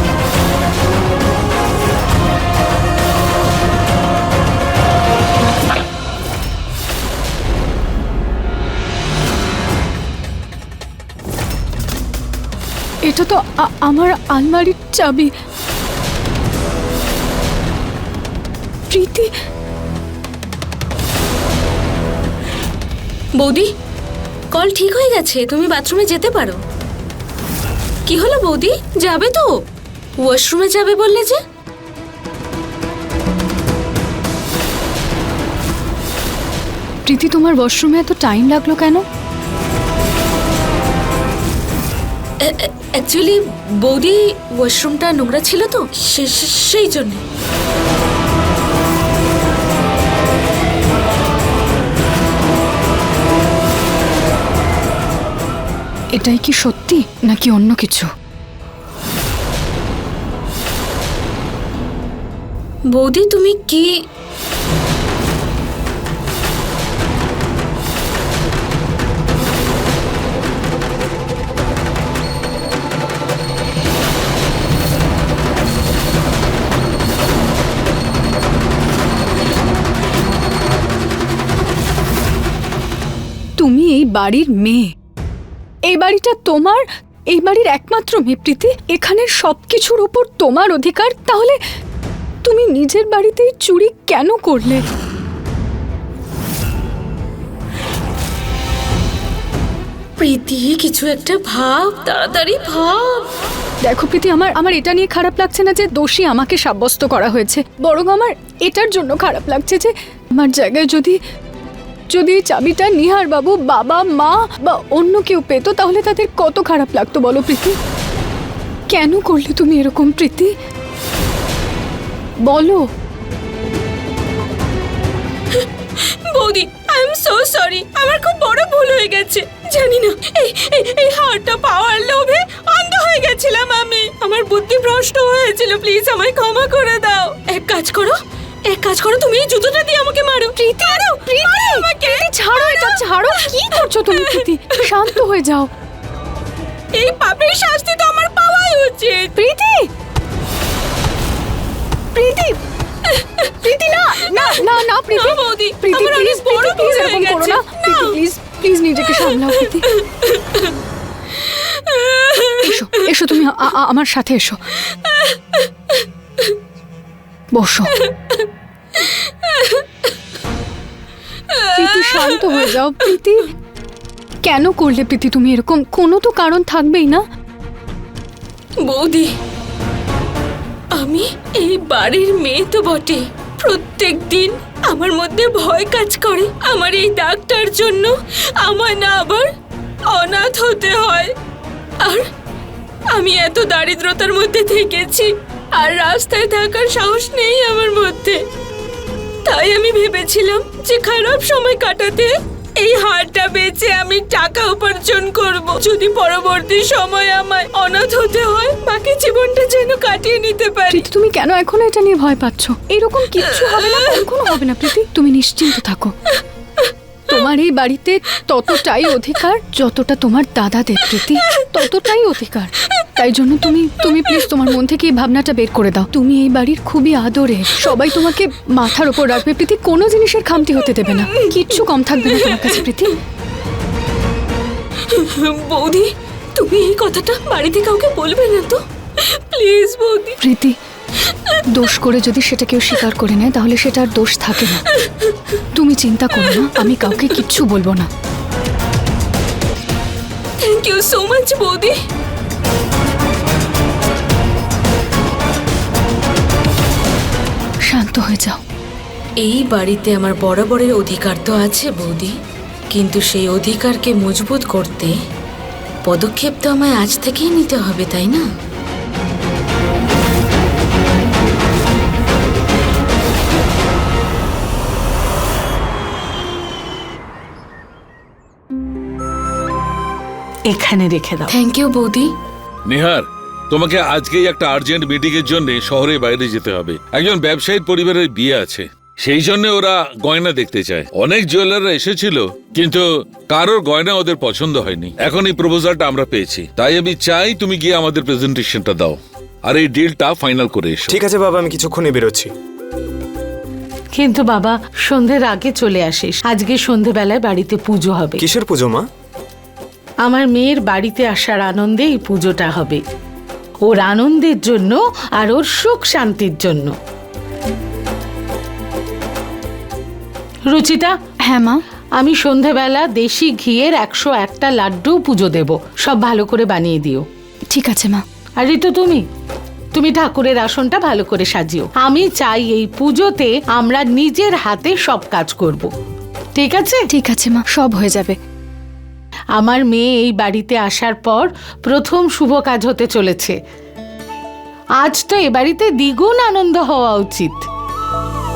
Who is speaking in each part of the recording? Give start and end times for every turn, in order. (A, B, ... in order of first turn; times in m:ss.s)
0:13.0-0:15.3 A
0:18.9-0:19.3 A
0:23.4-0:23.7 B
0:24.5-0:26.6 B
0:28.0-0:29.5 B
0:30.2-0:31.4 B
0:37.1-0:39.0 A
0:42.4-0:47.2 B
0:56.1-0:58.1 A
1:02.9-1:03.9 B
1:23.6-1:24.9 A
1:25.9-1:31.6 A
1:32.4-1:34.8 A
1:40.2-1:43.3 B
1:43.8-1:51.2 A
1:52.1-1:57.8 A
1:58.9-2:00.5 A
2:02.5-2:02.8 A
2:05.5-2:25.1 B
2:20.6-2:25.7 A
2:26.9-2:29.3 B
2:29.4-2:29.9 A
2:32.1-2:32.6 A
2:33.0-2:33.6 B
2:33.6-2:39.8 A
2:34.2-2:38.2 B
2:39.2-2:40.7 B
2:41.3-2:42.8 B
2:42.6-2:44.6 A
2:44.8-2:46.6 B
2:47.5-2:47.9 A
2:48.0-2:50.1 B
2:51.5-2:52.7 B
2:51.7-2:53.5 A
2:54.4-2:57.2 A
2:58.8-2:59.3 B
3:00.9-3:09.5 B
3:10.1-3:11.3 B
3:12.0-3:12.3 B
3:13.1-3:18.4 B
3:19.4-3:31.0 B
3:30.9-3:36.1 A
3:33.6-3:34.2 B
3:37.3-3:53.2 A
3:51.0-3:52.8 B
3:55.0-4:00.4 B
4:00.4-4:00.7 A
4:01.2-4:01.6 B
4:01.7-4:04.8 A
4:04.9-4:05.5 B
4:05.7-4:08.1 A
4:06.4-4:07.6 B
4:10.6-4:12.0 B
4:17.9-4:18.6 A
4:19.4-4:22.3 B
4:22.9-4:25.1 B
4:26.0-4:28.4 B
4:40.7-4:41.5 C
4:41.5-4:42.3 B
4:42.9-5:01.1 D
5:01.1-5:02.5 E
5:04.2-5:08.4 C
5:08.4-5:09.0 E
5:10.2-5:13.0 C
5:13.8-5:16.9 C
5:20.7-5:21.1 C
5:21.4-5:21.8 A
5:22.2-5:27.2 C
5:27.7-5:28.2 A
5:28.6-5:29.2 C
5:29.9-5:35.9 C
5:36.6-5:37.0 C
5:37.1-5:38.4 A
5:39.6-5:43.6 C
5:45.0-5:47.6 C